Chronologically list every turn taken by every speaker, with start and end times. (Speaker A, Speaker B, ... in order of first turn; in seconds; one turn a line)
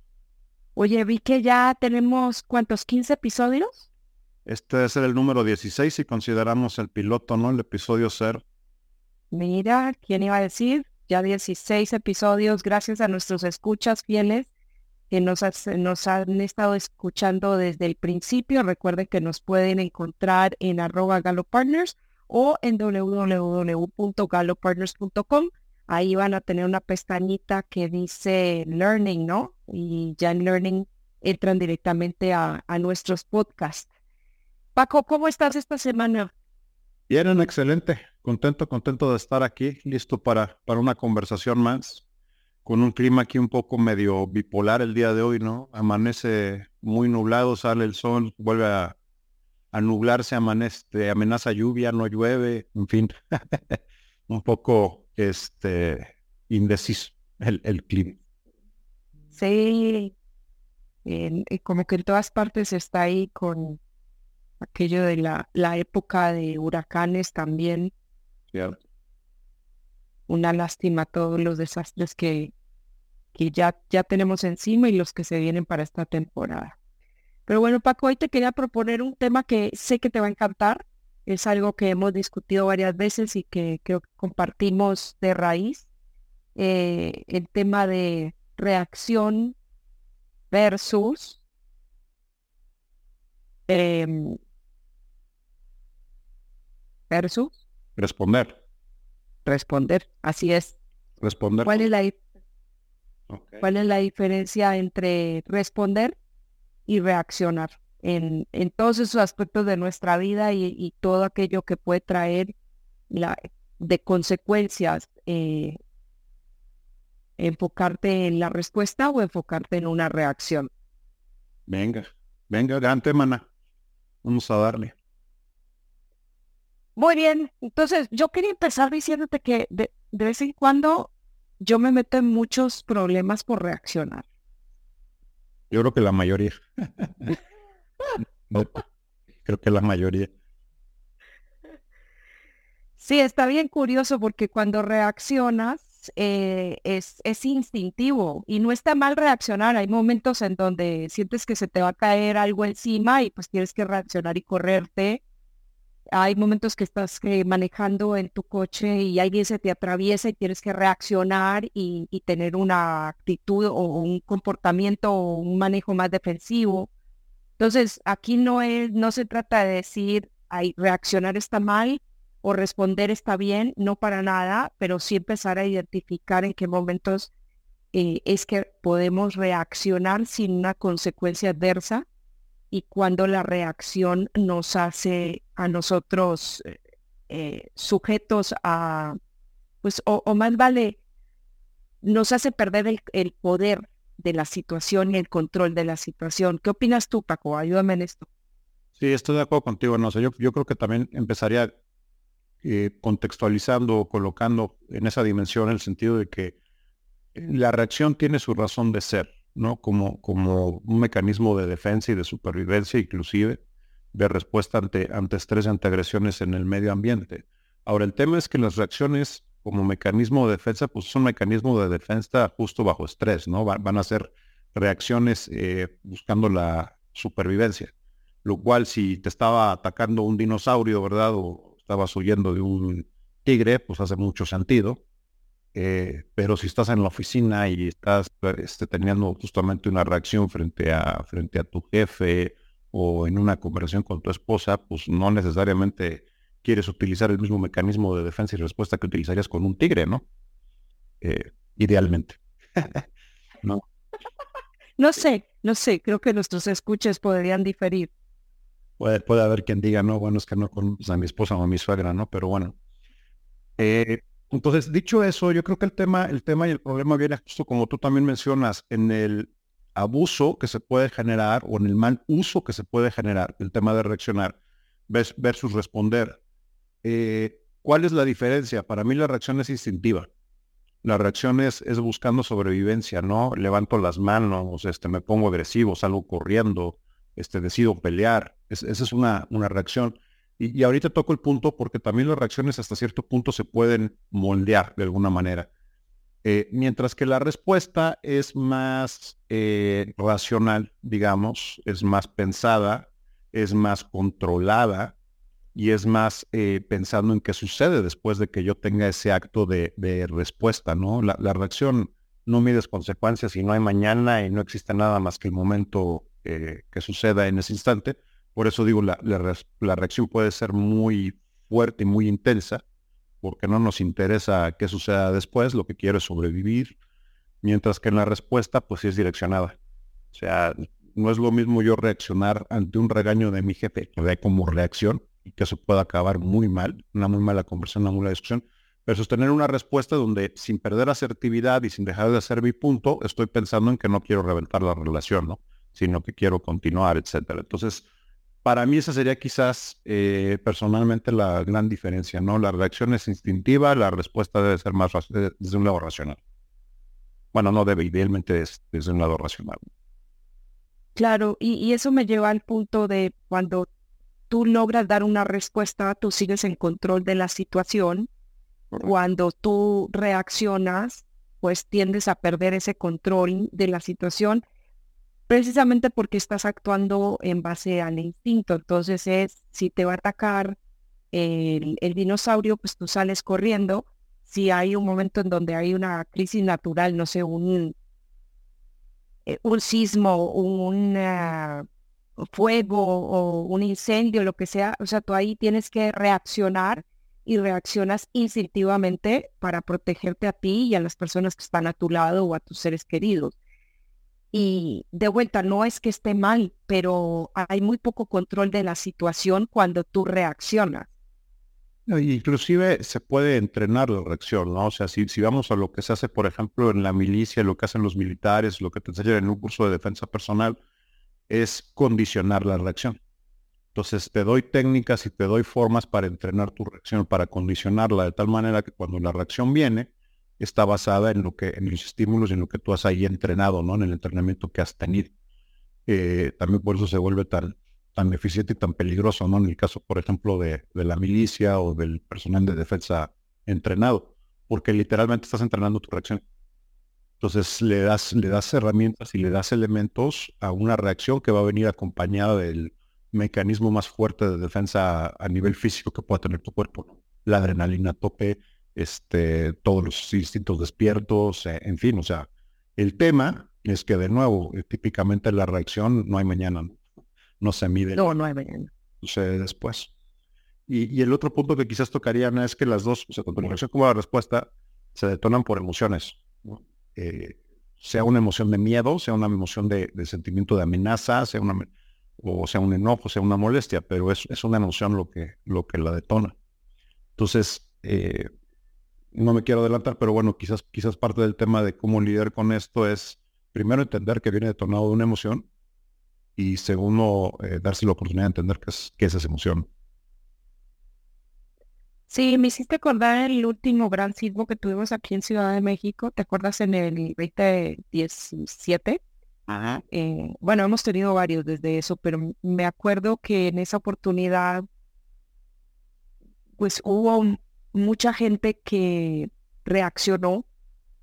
Speaker A: 0.8-3.9
Speaker B: 4.5-8.4
Speaker A: 9.3-14.5
Speaker A: 15.1-33.9
Speaker A: 34.7-36.3
Speaker B: 37.1-42.0
Speaker B: 42.6-49.0
Speaker B: 49.7-58.2
Speaker A: 59.3-60.1
Speaker A: 61.0-63.8
Speaker A: 64.6-67.9
Speaker A: 70.3-72.5
Speaker A: 73.3-76.8
Speaker A: 77.5-85.9
Speaker A: 86.5-89.5
Speaker A: 90.5-91.4
Speaker A: 93.7-94.4
Speaker A: 97.1-97.6
Speaker B: 98.0-98.5
Speaker A: 99.4-100.8
Speaker B: 101.2-101.8
Speaker A: 101.6-102.2
Speaker B: 103.3-103.6
Speaker A: 103.6-106.2
Speaker A: 106.9-112.5
Speaker A: 113.1-115.8
Speaker A: 117.4-120.7
Speaker B: 121.7-123.5
Speaker B: 124.2-124.9
Speaker A: 127.0-134.2
Speaker B: 135.7-137.4
Speaker B: 138.5-138.8
Speaker B: 139.4-140.3
Speaker A: 143.0-155.2
Speaker A: 156.1-166.9
Speaker A: 167.6-177.3
Speaker A: 177.9-182.1
Speaker A: 182.7-186.8
Speaker A: 187.3-189.2
Speaker A: 189.8-191.0
Speaker A: 192.0-198.3
Speaker B: 199.0-201.7
Speaker B: 202.6-206.6
Speaker B: 207.3-213.6
Speaker B: 214.1-227.9
Speaker B: 228.4-235.0
Speaker B: 235.7-250.2
Speaker B: 251.2-253.0
Speaker A: 255.0-258.1
Speaker B: 259.0-262.8
Speaker B: 263.8-274.6
Speaker B: 275.1-276.4
Speaker B: 277.0-280.3
Speaker B: 281.0-295.7
Speaker B: 296.4-305.1
Speaker B: 305.7-322.8
Speaker B: 323.4-326.9
Speaker B: 327.6-329.8
Speaker B: 330.3-348.1
Speaker B: 348.6-356.4
Speaker B: 357.5-359.8
Speaker A: 361.1-363.9
Speaker A: 364.5-368.3
Speaker A: 369.0-374.6
Speaker A: 375.5-380.8
Speaker A: 381.3-387.9
Speaker A: 389.4-391.9
Speaker A: 392.4-403.5
Speaker A: 404.5-411.1
Speaker B: 412.1-420.8
Speaker B: 421.5-423.2
Speaker B: 423.9-435.3
Speaker B: 436.1-446.4
Speaker B: 447.4-467.0
Speaker B: 467.6-468.2
Speaker A: 468.1-468.9
Speaker B: 469.2-470.1
Speaker B: 470.9-486.5
Speaker B: 487.4-488.5
Speaker B: 489.3-495.7
Speaker B: 496.6-499.9
Speaker A: 502.3-509.2
Speaker A: 510.0-514.8
Speaker A: 516.8-520.6